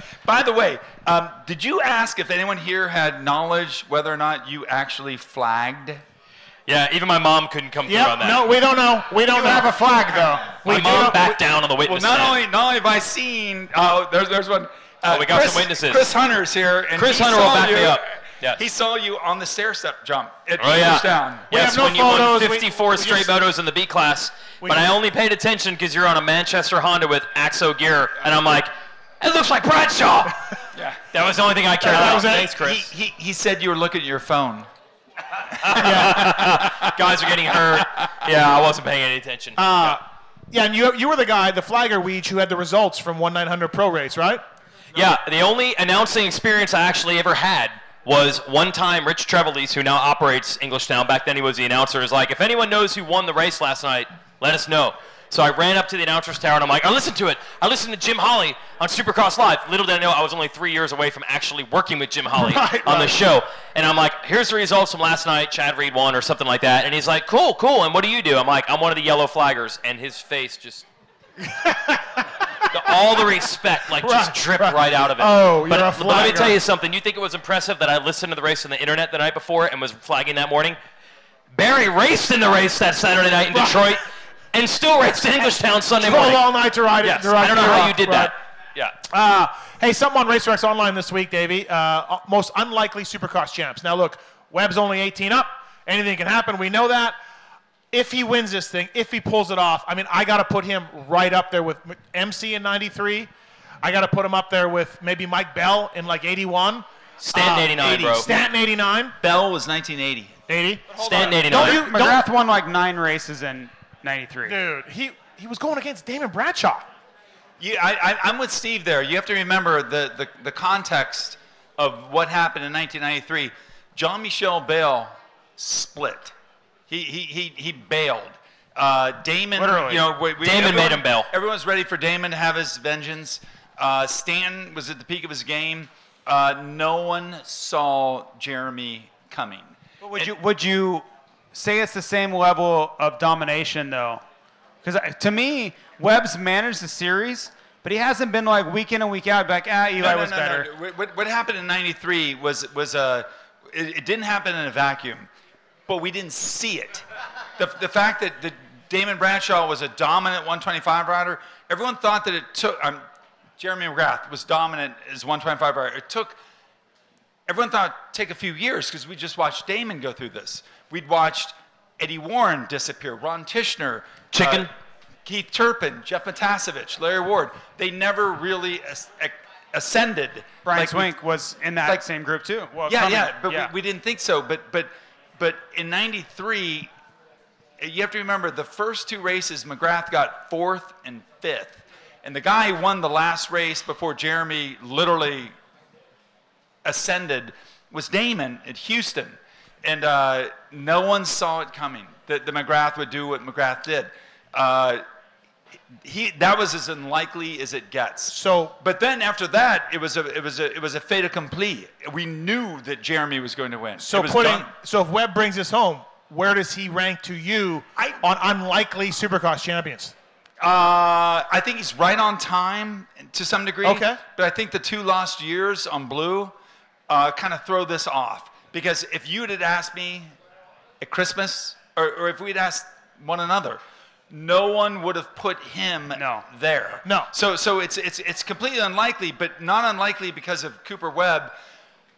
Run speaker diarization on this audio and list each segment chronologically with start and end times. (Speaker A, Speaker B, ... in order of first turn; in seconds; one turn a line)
Speaker A: 0.2-6.0
Speaker B: 6.7-8.4
Speaker C: 7.9-11.3
Speaker D: 9.3-10.4
Speaker B: 10.6-12.4
Speaker A: 11.8-21.5
Speaker B: 15.1-16.1
Speaker B: 16.9-18.6
Speaker B: 20.6-30.4
Speaker C: 21.5-23.3
Speaker C: 24.6-24.9
Speaker A: 30.8-31.0
Speaker B: 31.1-32.9
Speaker C: 31.8-32.5
Speaker A: 31.9-34.7
Speaker B: 35.6-40.0
Speaker A: 35.6-36.7
Speaker C: 35.8-36.3
Speaker C: 39.6-40.0
Speaker C: 40.5-44.4
Speaker B: 44.9-70.8
Speaker C: 62.3-63.1
Speaker C: 71.4-72.0
Speaker B: 72.7-80.8
Speaker C: 74.0-76.6
Speaker B: 81.5-84.0
Speaker C: 83.5-83.8
Speaker B: 84.5-86.5
Speaker C: 86.0-88.3
Speaker B: 87.0-88.9
Speaker C: 89.1-97.2
Speaker C: 97.9-103.3
Speaker C: 103.8-109.2
Speaker B: 107.2-108.3
Speaker A: 107.7-108.3
Speaker A: 109.2-110.3
Speaker C: 110.5-112.2
Speaker D: 111.0-114.5
Speaker B: 111.0-111.9
Speaker C: 114.5-116.9
Speaker A: 117.6-126.3
Speaker A: 126.9-140.3
Speaker D: 129.6-130.1
Speaker B: 130.4-131.3
Speaker D: 140.0-144.2
Speaker D: 144.8-150.7
Speaker A: 150.0-155.3
Speaker A: 155.9-157.1
Speaker A: 157.6-163.0
Speaker A: 163.6-166.4
Speaker A: 167.5-174.7
Speaker B: 174.3-174.7
Speaker A: 175.3-181.1
Speaker D: 180.6-183.7
Speaker A: 182.8-186.9
Speaker A: 187.8-195.5
Speaker A: 196.8-205.0
Speaker A: 206.0-214.7
Speaker C: 208.3-208.7
Speaker C: 214.0-220.1
Speaker A: 220.6-226.5
Speaker C: 223.8-224.2
Speaker A: 227.1-230.3
Speaker A: 231.0-241.5
Speaker D: 236.1-236.4
Speaker C: 237.1-237.3